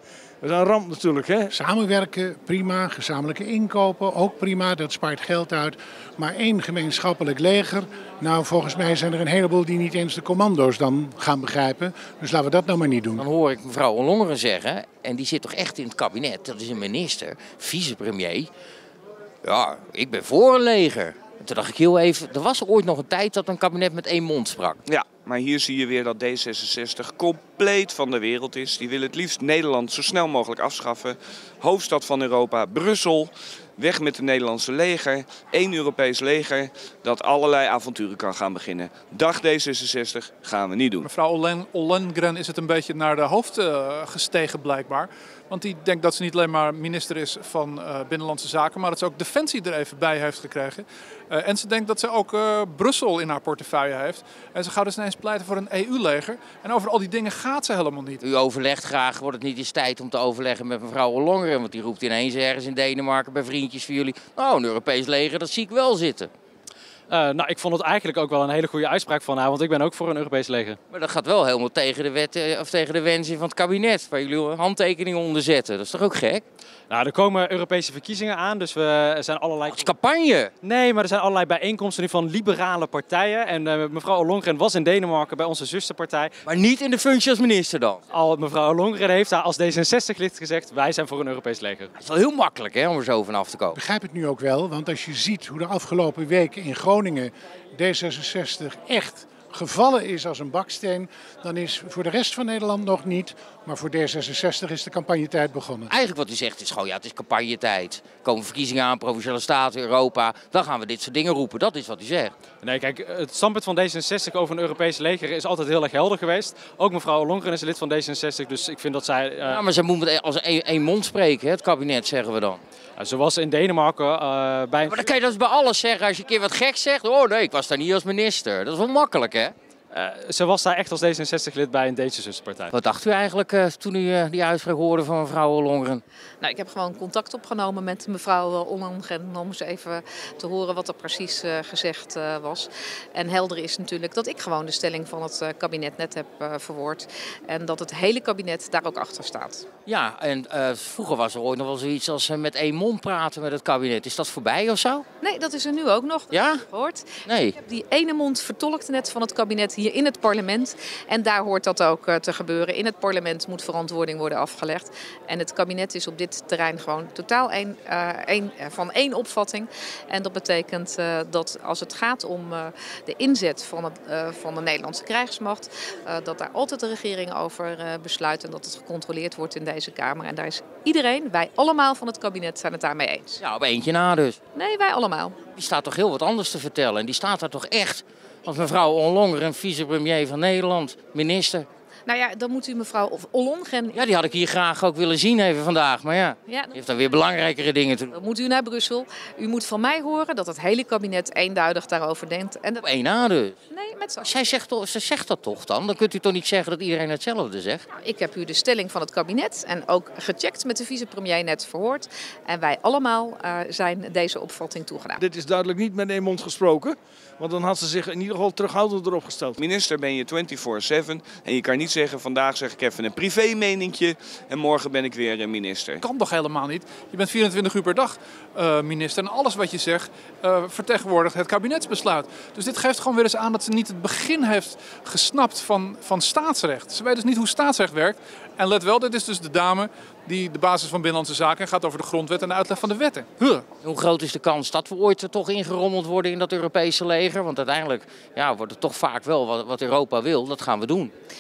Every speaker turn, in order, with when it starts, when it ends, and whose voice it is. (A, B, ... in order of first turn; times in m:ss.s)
0:00.4-0:01.5 A
0:01.5-0:13.2 B
0:13.2-0:18.5 C
0:19.4-0:24.8 C
0:24.9-0:41.1 D
0:41.0-0:58.2 E
0:58.2-1:06.3 C
1:07.1-1:10.8 F
1:10.9-1:16.4 C
1:16.9-1:19.9 F
1:19.7-1:20.5 C
1:20.6-1:26.3 F
1:26.4-1:28.0 C
1:28.1-1:31.9 F
1:32.0-1:33.8 C
1:33.7-1:45.9 B
1:45.9-1:52.4 C
1:52.6-1:59.6 F
1:59.4-2:02.6 C
2:03.0-2:05.0 F
2:04.9-2:09.5 C
2:09.9-2:12.7 F
2:12.7-2:16.0 C
2:16.4-2:29.7 G
2:29.9-2:35.0 C
2:35.2-3:03.4 G
2:36.3-2:36.6 C
2:37.3-2:37.6 C
3:03.4-3:04.4 C
3:04.5-3:05.4 G
3:05.6-3:11.7 C
3:12.1-3:14.0 G
3:13.9-3:18.1 C
3:16.5-3:16.8 G
3:18.1-3:22.9 G
3:22.8-3:23.6 C
3:23.7-3:24.3 G
3:24.2-3:27.8 C
3:28.0-3:35.2 G
3:35.2-3:39.6 A
3:39.6-3:46.0 D
3:46.0-4:03.3 E
4:03.4-4:11.1 C